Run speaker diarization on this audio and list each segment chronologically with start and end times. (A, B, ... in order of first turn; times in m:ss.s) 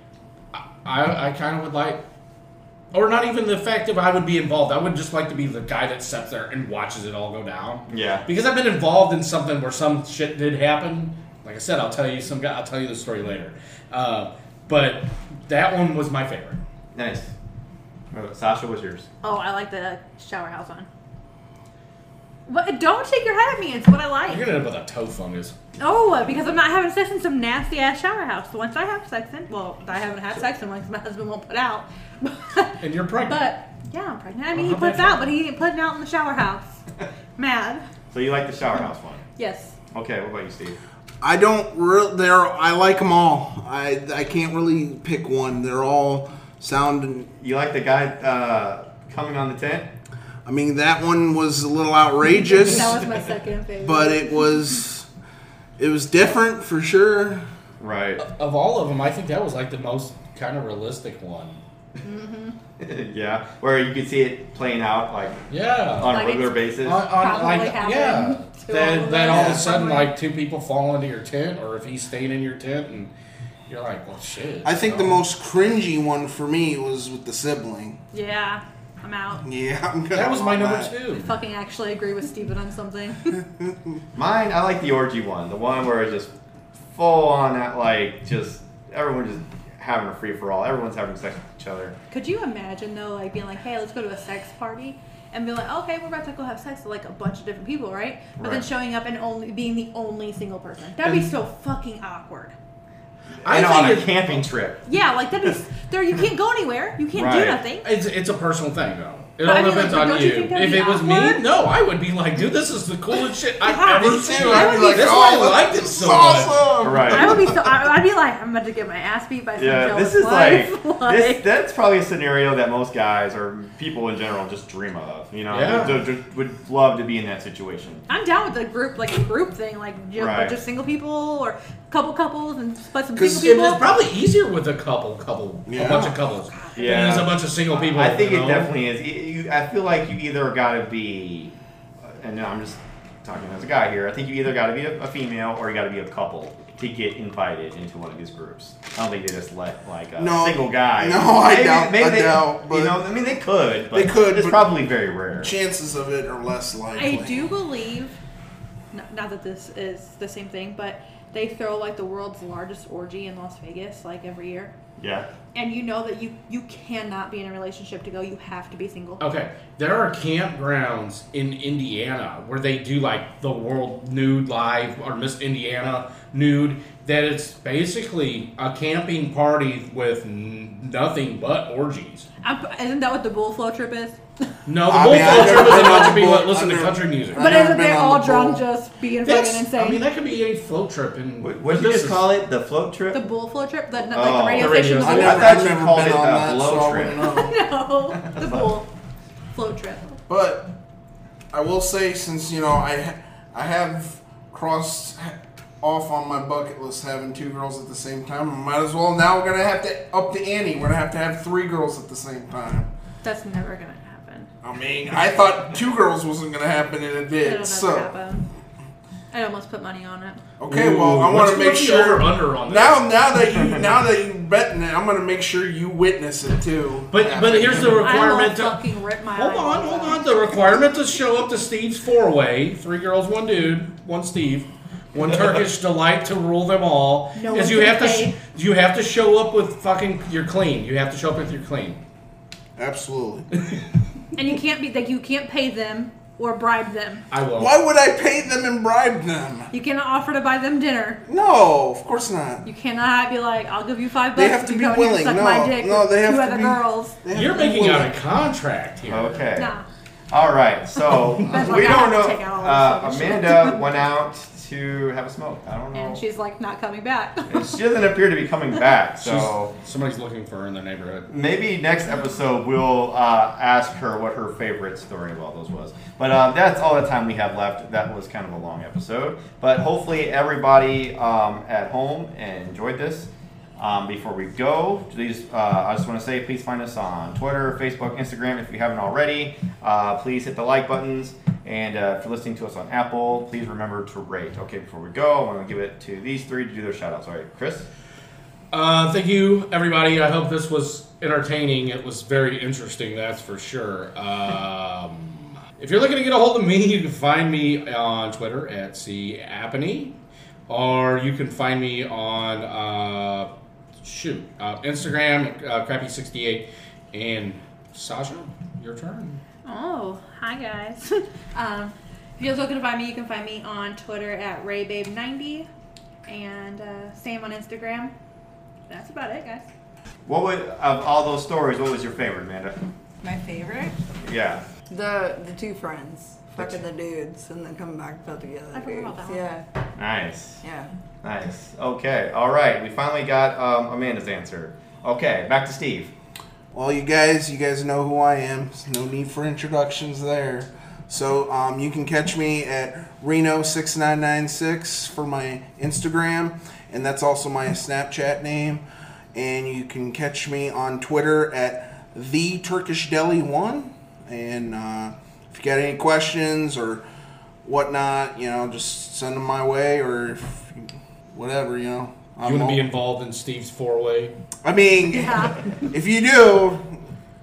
0:00.5-0:02.0 A
0:02.9-0:16.6 A
0:07.9-0:08.2 B
0:16.9-0:17.3 B
0:18.1-0:19.1 B
0:19.2-0:20.9 C
0:22.5-0:24.4 C
0:24.3-0:25.5 A
0:25.8-0:36.8 C
0:32.8-0:33.4 A
0:34.5-0:35.3 A
0:37.4-0:37.8 C
0:38.1-0:39.2 B
0:39.4-0:39.8 C
0:39.9-0:40.8 B
0:41.2-0:47.3 D
0:47.4-0:49.9 B
0:50.4-0:53.1 D
0:52.2-0:54.8 C
0:53.8-0:55.1 D
0:55.8-0:57.4 D
0:57.8-0:58.2 B
0:58.2-1:01.6 A
1:02.0-1:02.6 C
1:02.8-1:05.4 B
1:05.5-1:06.2 A
1:06.0-1:07.0 B
1:06.0-1:10.1 C
1:06.8-1:13.1 A
1:09.3-1:09.7 D
1:13.7-1:15.2 A
1:14.6-1:18.0 D
1:18.1-1:19.4 C
1:19.4-1:20.9 D
1:20.1-1:21.3 A
1:21.1-1:23.4 C
1:23.6-1:24.0 D
1:24.1-1:26.3 B
1:26.9-1:32.0 B
1:32.1-1:42.5 C
1:38.4-1:38.6 B
1:41.0-1:41.3 A
1:43.4-1:44.8 B
1:43.4-1:44.5 A
1:44.8-1:47.9 C
1:47.1-1:47.6 B
1:47.8-1:56.7 A
1:49.4-1:51.4 C
1:53.6-1:55.3 C
1:53.8-1:57.6 D
1:56.8-1:57.4 B
1:57.0-2:01.4 C
1:59.6-2:08.0 B
2:05.5-2:06.1 A
2:08.1-2:13.8 C
2:10.2-2:10.6 B
2:13.2-2:18.7 A
2:15.7-2:16.1 D
2:16.5-2:17.1 C
2:16.8-2:35.6 B
2:30.2-2:33.1 D
2:33.9-2:34.8 D
2:35.4-2:37.5 D
2:37.0-2:38.2 C
2:38.9-2:44.7 C
2:45.0-2:45.3 B
2:45.5-2:49.2 C
2:49.2-3:02.3 A
3:02.4-3:04.2 C
3:04.6-3:07.4 A
3:04.8-3:08.6 D
3:05.1-3:06.2 C
3:07.4-3:10.0 C
3:09.2-3:12.3 A
3:11.4-3:13.3 B
3:13.1-3:15.5 C
3:14.0-3:17.3 B
3:14.5-3:15.4 A
3:14.9-3:17.6 D
3:17.2-3:18.9 C
3:18.2-3:18.7 B
3:19.5-3:20.2 C
3:20.3-3:20.7 D
3:21.5-3:32.9 D
3:33.2-3:34.5 C
3:34.6-3:38.1 D
3:37.4-3:38.4 C
3:39.3-3:40.4 C
3:40.6-3:48.4 D
3:40.7-3:43.1 A
3:43.5-3:43.8 B
3:47.1-3:48.8 A
3:47.9-3:50.3 C
3:49.3-4:02.0 A
3:57.3-3:58.4 C
4:02.8-4:03.5 D
4:04.3-4:07.2 C
4:07.3-4:07.7 A
4:07.5-4:09.7 D
4:09.7-4:11.2 C
4:11.2-4:12.6 D
4:12.6-4:17.2 C
4:14.3-4:18.1 D
4:17.3-4:19.4 A
4:19.0-4:19.7 B
4:19.6-4:19.8 C
4:20.3-4:26.2 B
4:21.4-4:23.8 C
4:25.9-4:27.8 C
4:27.5-4:29.7 B
4:29.2-4:31.3 A
4:31.3-4:57.9 B
4:58.7-5:10.2 A
5:10.7-5:13.5 A
5:14.0-5:19.4 A
5:19.6-5:25.7 C
5:26.3-5:28.1 C
5:28.9-5:29.6 C
5:30.3-5:32.8 B
5:33.2-5:34.0 E
5:34.2-5:34.6 B
5:34.9-5:39.7 E
5:38.7-5:39.4 C
5:40.0-5:40.6 B
5:40.6-5:40.9 E
5:41.2-5:46.1 B
5:46.7-5:58.8 D
5:59.3-6:07.0 D
6:07.6-6:12.8 D
6:12.4-6:14.3 A
6:14.6-6:17.0 D
6:15.0-6:15.6 C